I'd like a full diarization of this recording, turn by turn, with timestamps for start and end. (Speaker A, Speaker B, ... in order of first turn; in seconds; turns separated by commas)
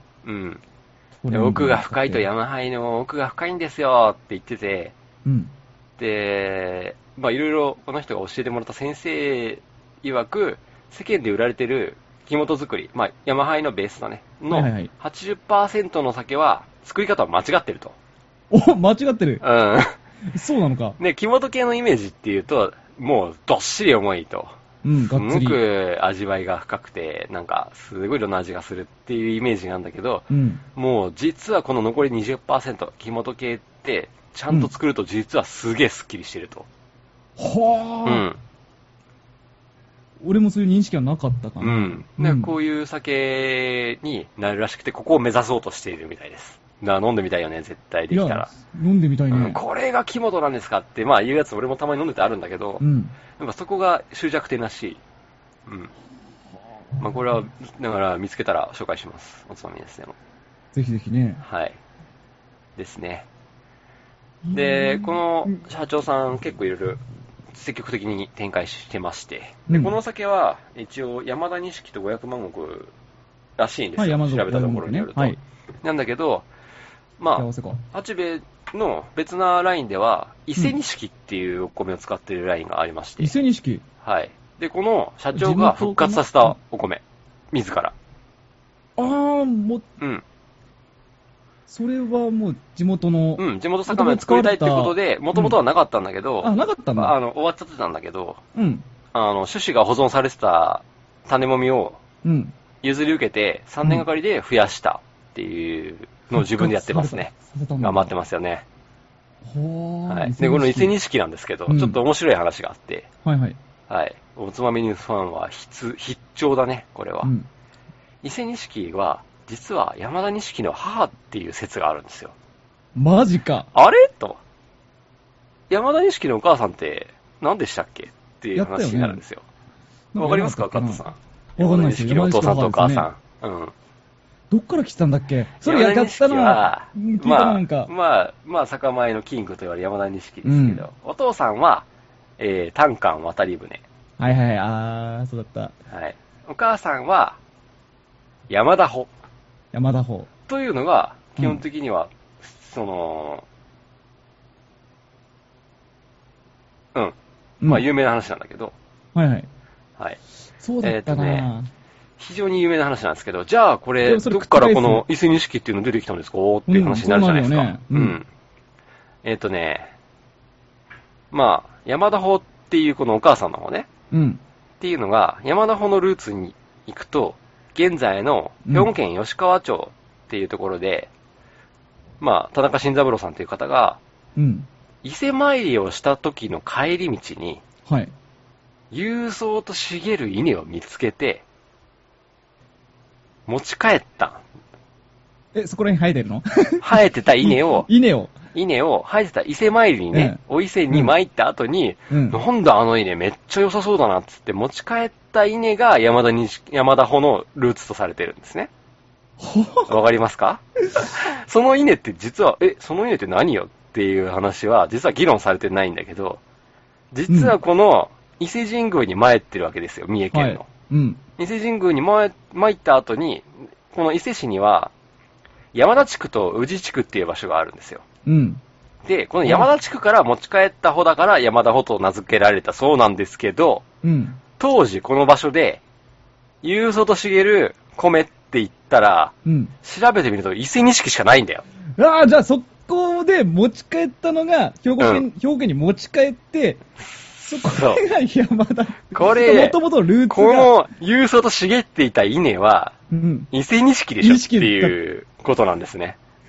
Speaker A: 0.2-0.6, Speaker B: 1.2-2.2, Speaker A: 1.3-4.9, Speaker B: 5.2-5.5, Speaker A: 6.0-17.9, Speaker B: 14.5-14.9, Speaker B: 18.5-19.4, Speaker A: 19.4-20.0, Speaker B: 20.3-21.0, Speaker A: 21.0-24.5, Speaker B: 24.8-25.6, Speaker A: 25.1-36.7, Speaker B: 30.3-30.6, Speaker B: 37.4-38.2, Speaker A: 38.0-38.4, Speaker B: 40.2-42.5, Speaker A: 41.6-48.5, Speaker B: 48.1-49.6, Speaker A: 49.3-52.8, Speaker B: 52.8-53.1, Speaker A: 53.4-55.0, Speaker A: 55.7-55.9, Speaker A: 57.0-60.1, Speaker B: 60.7-61.4, Speaker A: 61.4-61.8, Speaker A: 62.8-63.2, Speaker B: 64.4-65.6, Speaker A: 64.5-67.0, Speaker A: 67.5-72.9, Speaker B: 69.7-70.0, Speaker A: 73.6-76.5, Speaker B: 74.0-75.4, Speaker A: 77.2-83.3, Speaker B: 77.3-77.8, Speaker B: 83.2-83.8, Speaker A: 84.0-87.9, Speaker B: 85.3-86.6, Speaker B: 89.0-89.8, Speaker B: 91.7-95.5, Speaker A: 93.4-98.4, Speaker B: 96.4-97.1, Speaker B: 98.5-98.8, Speaker A: 99.1-102.0, Speaker B: 102.2-102.5, Speaker A: 102.8-108.6, Speaker B: 106.3-108.1, Speaker B: 109.4-110.9, Speaker A: 110.1-113.1, Speaker B: 111.7-112.0, Speaker B: 113.2-113.6, Speaker A: 113.9-117.3, Speaker A: 118.2-122.3, Speaker B: 122.9-123.7, Speaker A: 123.7-124.4, Speaker A: 125.7-129.4, Speaker B: 128.5-129.2, Speaker B: 130.1-131.0, Speaker A: 130.2-133.7, Speaker B: 131.6-133.1, Speaker B: 134.5-137.9, Speaker A: 135.6-141.8, Speaker B: 140.4-140.8, Speaker A: 142.4-143.8, Speaker B: 144.2-145.7, Speaker A: 145.9-147.4, Speaker A: 148.5-149.1, Speaker B: 149.7-150.3, Speaker A: 150.5-153.4, Speaker B: 151.4-151.6, Speaker A: 156.9-158.7, Speaker B: 159.1-159.5, Speaker B: 160.6-161.7, Speaker A: 160.8-161.5, Speaker A: 162.2-168.2, Speaker B: 164.0-165.0, Speaker B: 166.7-168.2, Speaker A: 169.2-169.9, Speaker A: 171.3-173.9, Speaker B: 174.1-174.4, Speaker A: 174.8-181.1, Speaker B: 178.7-178.9, Speaker A: 182.2-184.0, Speaker B: 184.3-184.7, Speaker A: 185.0-187.6, Speaker B: 187.8-188.1, Speaker A: 188.9-191.4, Speaker A: 193.5-194.4, Speaker B: 195.5-198.3, Speaker A: 196.8-197.9, Speaker A: 198.5-208.7, Speaker B: 200.1-200.4, Speaker B: 202.1-202.4, Speaker B: 209.4-209.9, Speaker A: 209.9-216.4, Speaker A: 217.1-220.7, Speaker B: 217.3-217.5, Speaker B: 220.3-221.2, Speaker A: 221.4-224.9, Speaker A: 225.7-228.0, Speaker B: 228.2-228.6, Speaker A: 229.0-233.8, Speaker B: 229.4-229.7, Speaker B: 234.0-234.4, Speaker A: 234.6-235.8, Speaker A: 236.6-241.6, Speaker B: 239.4-239.7, Speaker B: 242.0-246.8, Speaker A: 245.0-245.2, Speaker A: 247.2-248.0, Speaker B: 247.5-250.7, Speaker A: 249.1-253.0, Speaker B: 253.1-253.5, Speaker A: 253.5-256.2, Speaker B: 254.2-254.9